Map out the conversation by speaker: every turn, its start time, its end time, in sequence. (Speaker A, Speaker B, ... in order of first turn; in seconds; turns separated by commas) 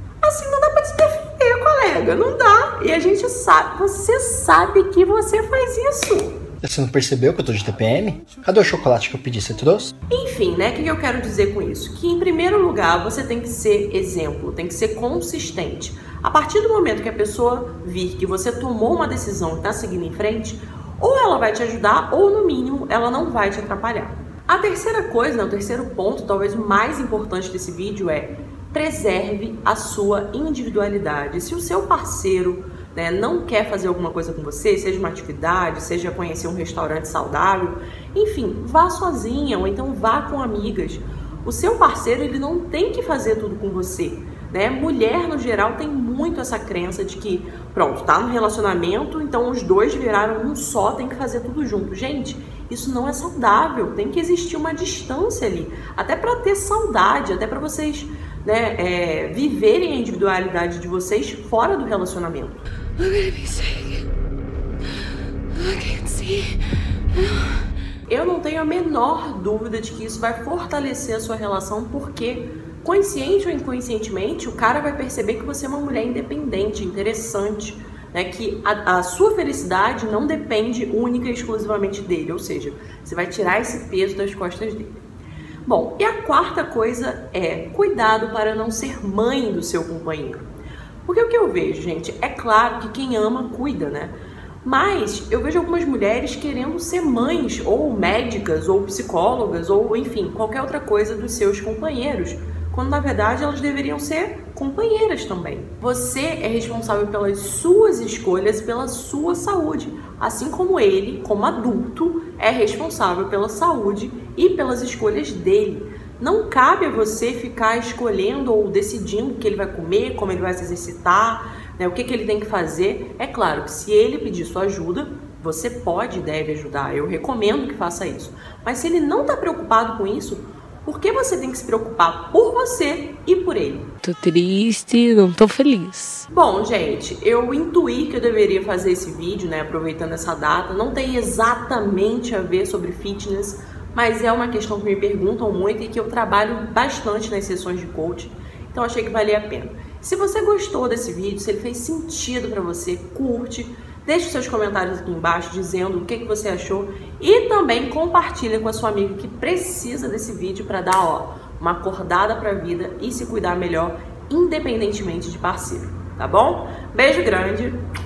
Speaker A: 0.2-6.4, Speaker B: 6.6-9.9, Speaker A: 10.1-62.6, Speaker C: 63.3-63.7, Speaker C: 66.0-66.5, Speaker A: 68.1-85.0, Speaker A: 85.7-90.5, Speaker A: 91.0-133.9, Speaker C: 134.0-136.2, Speaker A: 136.3-167.8